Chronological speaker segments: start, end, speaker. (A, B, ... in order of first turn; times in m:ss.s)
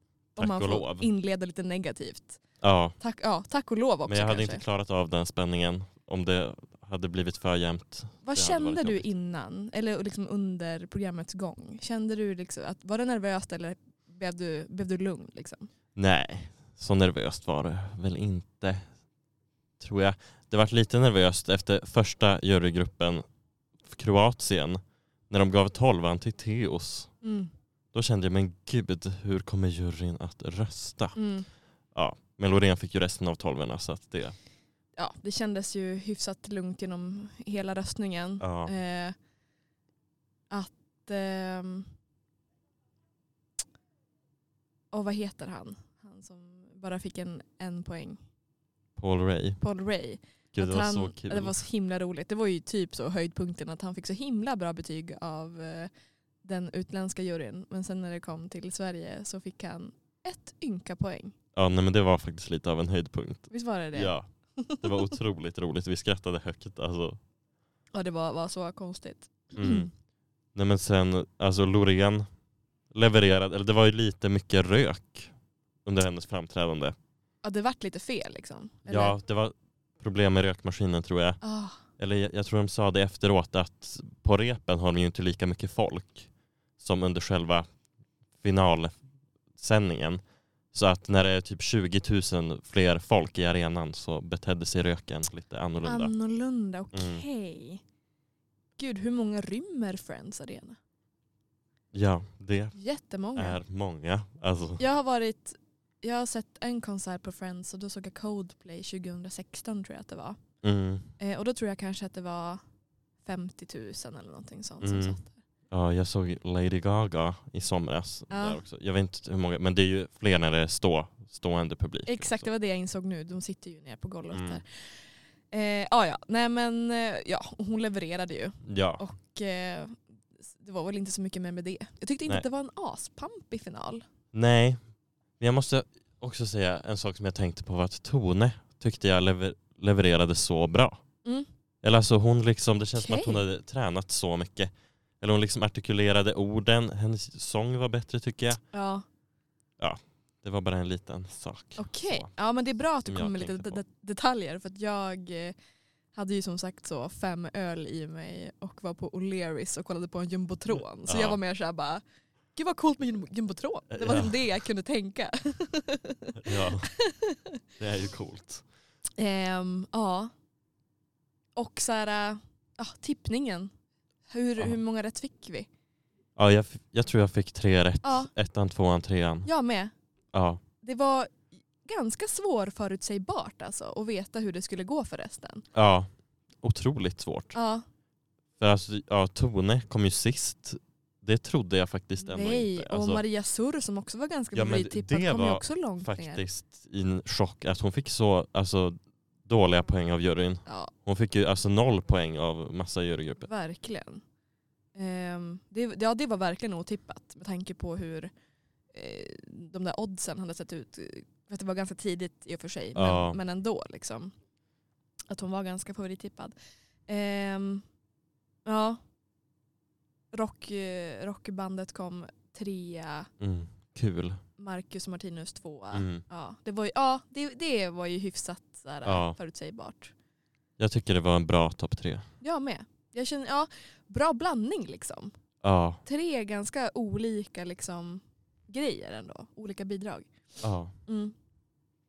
0:00.4-0:02.4 A
0:00.4-0:01.1 B
0:02.6-0:03.0 B
0:03.0-0:04.6 A
0:04.1-0:09.1 B
0:08.2-0:15.7 A
0:16.0-0:18.9 B
0:19.8-0:23.2 B
0:23.8-0:27.1 B
0:27.2-0:27.5 A
0:27.9-0:31.2 B
0:31.2-0:31.5 A
0:31.9-0:34.4 B
0:35.0-0:39.2 A
0:38.4-0:38.7 B
0:40.5-0:41.9 A
0:44.9-0:48.2 A
0:49.0-0:49.6 B
0:49.6-0:55.9 A
0:50.5-0:51.6 B
0:56.4-1:01.4 A
1:01.5-1:04.3 B
1:03.5-1:04.9 A
1:04.8-1:07.2 B
1:07.9-1:09.9 A
1:09.6-1:09.9 B
1:10.6-1:12.3 B
1:12.9-1:15.3 B
1:15.8-1:17.0 B
1:17.4-1:19.2 A
1:18.9-1:21.4 B
1:21.4-1:21.8 A
1:22.0-1:27.7 B
1:28.4-1:29.0 B
1:29.6-1:30.2 B
1:30.7-1:36.1 B
1:35.8-1:37.8 A
1:36.9-1:37.2 B
1:38.8-1:40.8 A
1:41.9-1:42.8 B
1:42.7-1:43.6 A
1:43.4-1:44.8 B
1:44.8-1:50.4 A
1:50.6-1:51.1 B
1:51.2-1:52.6 A
1:53.2-1:55.4 A
1:54.8-1:55.2 B
1:55.7-2:02.4 B
1:58.3-1:58.6 A
2:02.1-2:14.1 A
2:04.3-2:04.6 B
2:08.6-2:09.0 B
2:14.3-2:14.8 B
2:15.4-2:21.0 B
2:21.8-2:28.6 B
2:23.0-2:23.4 A
2:28.7-2:29.0 A
2:29.8-2:32.3 B
2:31.8-2:35.6 A
2:33.1-2:33.8 B
2:36.1-2:42.0 A
2:41.1-2:41.4 B
2:42.6-2:47.5 A
2:43.9-2:44.4 B
2:46.4-2:46.9 B
2:47.8-2:48.6 B
2:49.2-2:50.3 A
2:51.6-2:53.7 A
2:54.3-2:55.7 A
2:56.4-2:59.5 B
2:58.0-2:58.3 A
2:59.4-2:59.9 A
3:00.3-3:00.6 B
3:00.8-3:01.3 A
3:01.8-3:05.6 A
3:05.7-3:06.1 B
3:06.6-3:07.6 B
3:07.5-3:07.8 A
3:08.6-3:13.2 B
3:12.2-3:16.4 A
3:14.5-3:23.5 B
3:20.7-3:20.9 A
3:23.4-3:24.2 A
3:25.0-3:28.3 A
3:28.9-3:34.3 A
3:33.0-3:33.4 B
3:35.3-3:36.6 A
3:37.1-3:37.8 A
3:38.7-3:39.0 A
3:40.3-3:43.3 A
3:43.4-3:44.4 B
3:44.6-3:50.1 A
3:45.9-3:46.2 B
3:49.0-3:49.4 B
3:50.8-3:52.3 B
3:52.4-3:55.3 A
3:55.6-3:56.0 B
3:56.0-4:00.3 A
4:00.6-4:00.9 B
4:01.1-4:01.4 A